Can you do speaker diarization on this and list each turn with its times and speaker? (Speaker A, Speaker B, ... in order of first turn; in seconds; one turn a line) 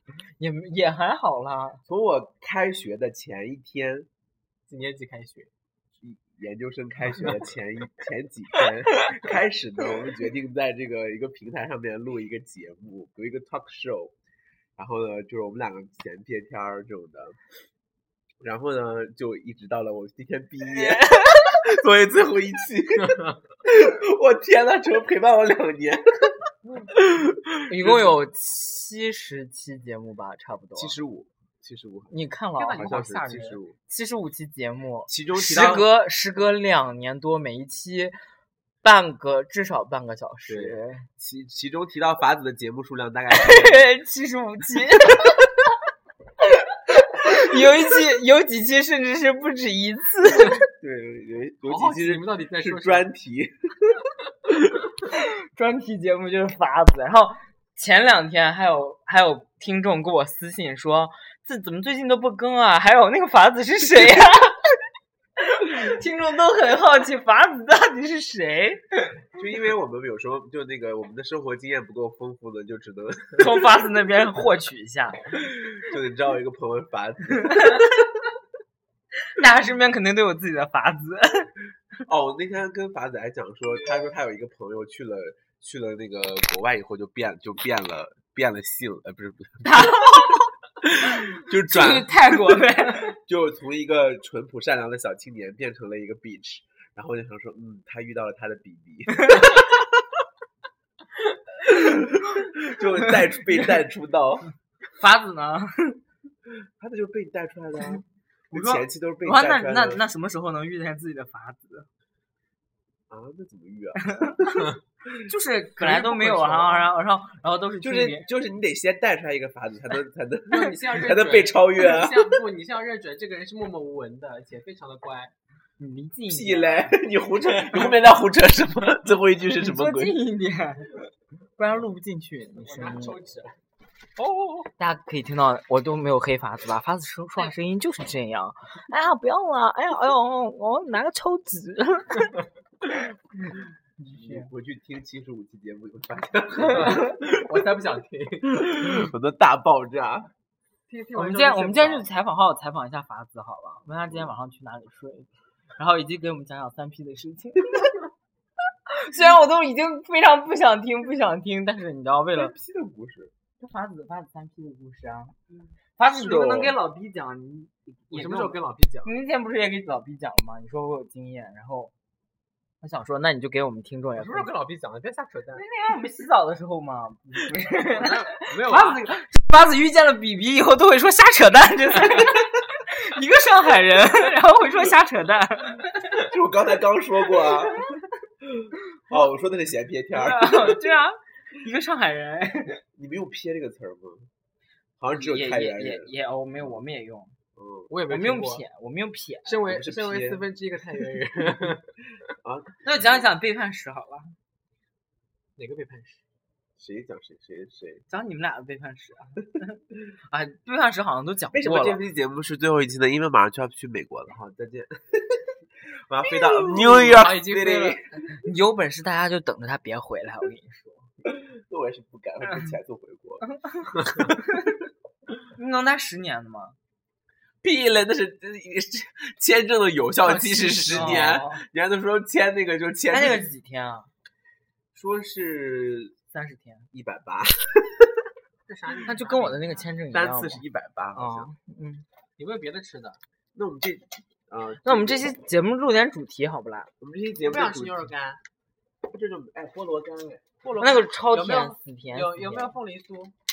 Speaker A: 0.4-1.8
Speaker B: 1.9-4.1
Speaker C: 4.7-5.5
Speaker B: 6.0-14.1
Speaker B: 14.8-17.4
Speaker B: 18.4-26.4
Speaker A: 20.7-21.6
Speaker C: 23.0-23.4
Speaker B: 26.9-28.0
Speaker A: 27.7-31.0
Speaker B: 30.8-32.1
Speaker A: 32.1-33.0
Speaker C: 32.6-33.6
Speaker B: 32.8-33.8
Speaker A: 33.9-38.2
Speaker B: 35.1-35.9
Speaker A: 38.8-41.1
Speaker B: 40.5-43.9
Speaker A: 43.3-45.5
Speaker A: 46.6-50.6
Speaker B: 50.8-54.8
Speaker C: 51.6-53.1
Speaker A: 55.1-64.6
Speaker A: 65.4-68.8
Speaker B: 69.3-73.5
Speaker A: 73.4-75.3
Speaker B: 75.7-78.1
Speaker A: 77.5-77.8
Speaker A: 79.3-81.5
Speaker B: 82.1-90.3
Speaker A: 89.6-90.5
Speaker B: 90.8-92.6
Speaker A: 91.2-93.2
Speaker B: 93.3-100.2
Speaker B: 101.6-104.5
Speaker A: 105.0-106.0
Speaker B: 106.8-110.0
Speaker A: 108.5-111.9
Speaker B: 113.1-114.5
Speaker A: 114.2-114.7
Speaker A: 115.3-118.3
Speaker C: 115.9-116.7
Speaker B: 117.8-122.4
Speaker C: 120.5-125.3
Speaker A: 125.8-127.0
Speaker B: 126.3-130.2
Speaker A: 129.6-133.2
Speaker C: 132.6-133.6
Speaker C: 134.2-134.7
Speaker A: 134.8-142.3
Speaker A: 144.0-144.5
Speaker B: 144.1-147.3
Speaker C: 146.6-148.8
Speaker B: 148.5-150.3
Speaker C: 150.9-152.1
Speaker A: 151.1-157.9
Speaker A: 158.9-162.5
Speaker B: 162.3-163.3
Speaker A: 163.6-165.4
Speaker A: 166.0-171.9
Speaker B: 166.2-166.7
Speaker C: 168.1-169.1
Speaker A: 172.8-174.5
Speaker C: 174.2-175.6
Speaker A: 175.6-186.2
Speaker C: 177.8-179.0
Speaker B: 186.2-187.8
Speaker B: 188.4-190.8
Speaker A: 190.1-192.8
Speaker B: 192.9-194.3
Speaker B: 195.0-196.1
Speaker A: 195.2-197.4
Speaker B: 197.6-197.9
Speaker C: 197.9-198.6
Speaker A: 198.1-199.6
Speaker C: 199.4-201.9
Speaker B: 199.7-200.4
Speaker B: 202.4-203.2
Speaker A: 202.8-204.3
Speaker C: 205.6-206.2
Speaker B: 206.8-208.0
Speaker A: 208.1-209.8
Speaker A: 210.3-212.0
Speaker B: 211.5-218.1
Speaker C: 216.6-218.0
Speaker A: 218.4-221.1
Speaker B: 221.2-223.4
Speaker A: 223.7-224.8
Speaker A: 225.6-226.8
Speaker B: 227.6-233.5
Speaker C: 230.2-231.4
Speaker A: 230.9-231.6
Speaker A: 233.1-234.1
Speaker B: 234.9-236.1
Speaker A: 236.3-236.9
Speaker B: 236.9-238.3
Speaker C: 238.7-239.9
Speaker A: 239.1-240.6
Speaker B: 240.1-241.5
Speaker A: 241.2-242.1
Speaker C: 242.4-243.2
Speaker B: 243.6-245.3
Speaker A: 244.8-246.9
Speaker B: 247.0-248.1
Speaker C: 247.4-248.4
Speaker B: 249.1-250.5
Speaker C: 250.6-253.3
Speaker A: 250.8-252.8